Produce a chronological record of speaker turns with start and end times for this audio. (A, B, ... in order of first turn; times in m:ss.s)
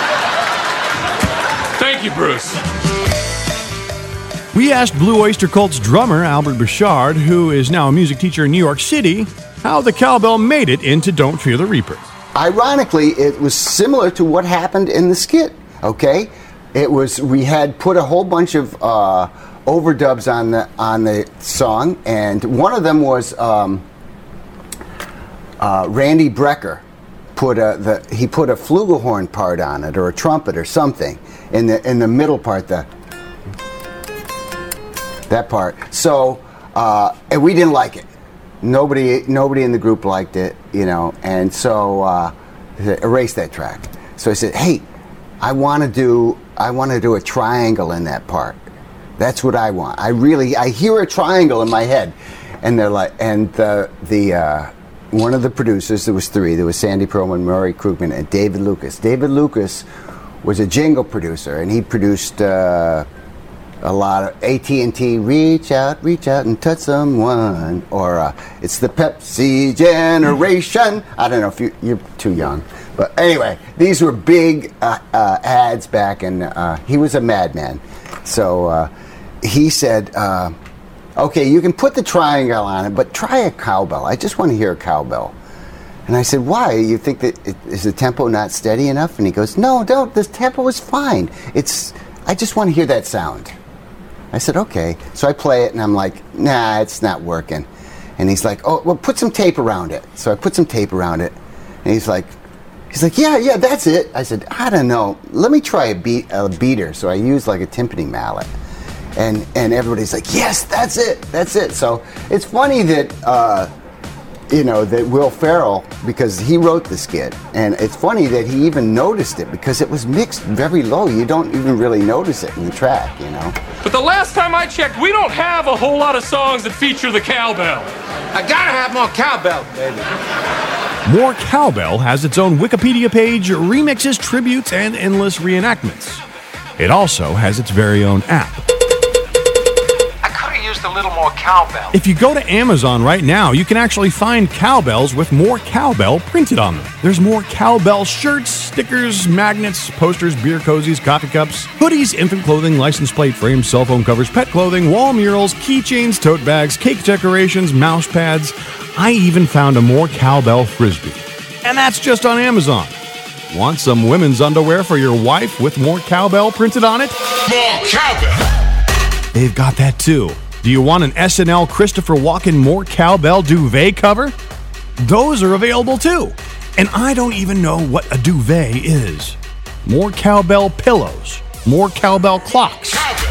0:01.8-0:02.6 A
0:04.5-0:12.1 B
0:12.4-0:23.8 C
0:25.6-0:26.8 C
0:27.4-0:32.9 C
0:35.3-0:38.1 C
0:38.6-0:44.8 C
0:45.4-0:48.6 C
0:49.2-0:59.9 C
1:00.4-1:03.1 C
1:03.8-1:18.9 C
1:19.4-1:20.6 C
1:21.2-1:25.3 C
1:26.1-1:33.5 C
1:34.3-1:37.7 C
1:38.2-1:42.4 C
1:42.9-1:48.5 C
1:49.2-1:53.7 C
1:54.5-2:03.6 C
2:03.8-2:07.9 A
2:08.3-2:10.1 D
2:11.1-2:16.2 B
2:16.8-2:18.6 B
2:20.2-2:22.0 D
2:21.9-2:43.0 B
2:43.5-2:47.2 B
2:49.3-2:54.4 B
2:55.0-3:03.0 B